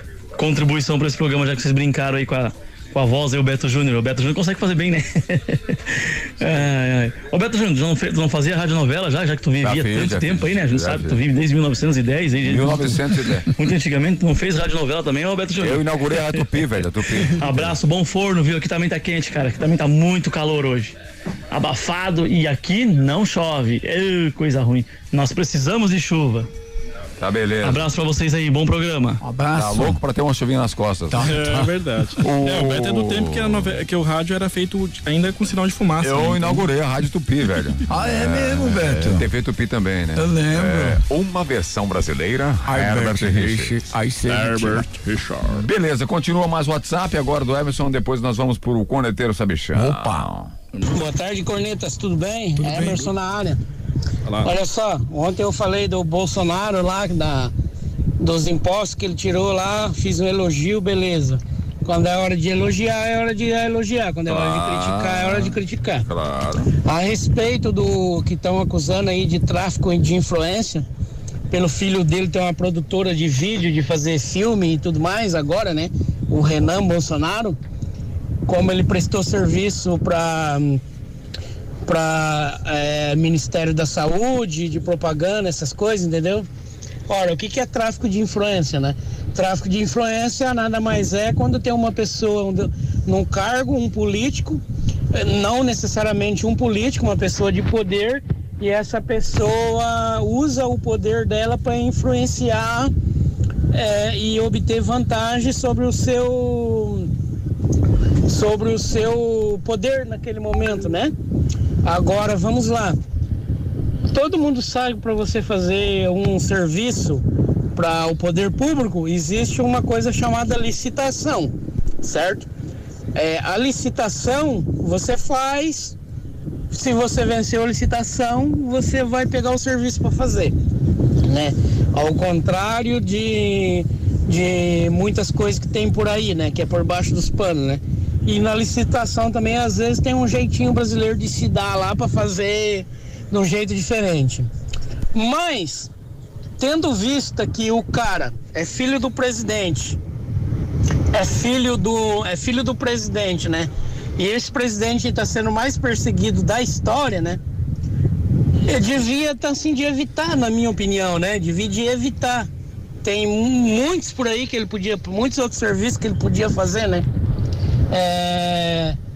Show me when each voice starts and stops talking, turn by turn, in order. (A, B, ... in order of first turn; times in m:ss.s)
0:00.4-0:16.4 A
0:09.6-0:11.2 B
0:12.4-0:13.5 B
0:15.6-0:17.8 B
0:17.3-0:21.0 A
0:21.5-0:26.5 A
0:27.2-0:27.9 B
0:27.6-0:29.2 A
0:29.2-0:30.0 C
0:29.5-0:31.5 B
0:31.1-0:31.7 C
0:31.3-0:36.6 D
0:32.2-0:33.7 B
0:36.0-0:43.7 B
0:37.9-0:39.2 C
0:40.1-0:41.0 C
0:42.6-0:44.8 C
0:44.3-0:45.6 D
0:45.5-0:50.5 B
0:49.7-0:50.3 C
0:50.7-0:51.0 D
0:50.8-0:53.6 E
0:52.6-0:53.1 C
0:54.2-0:54.5 D
0:54.4-0:57.5 E
0:58.2-1:06.0 E
1:04.2-1:06.7 B
1:06.8-1:10.8 E
1:11.5-1:17.6 E
1:18.5-1:20.8 E
1:21.8-1:26.4 E
1:27.1-1:34.6 E
1:35.1-1:42.9 E
1:43.7-1:47.1 E
1:48.3-1:51.1 E
1:51.8-1:53.0 E
1:54.1-1:57.2 E
1:57.7-2:02.5 E
2:03.1-2:06.0 E
2:06.7-2:10.5 E
2:11.2-2:24.5 E
2:25.1-2:25.9 E
2:26.6-2:30.0 E
2:31.1-2:37.4 E
2:38.7-2:42.5 E
2:43.0-2:47.0 E
2:47.9-2:49.0 E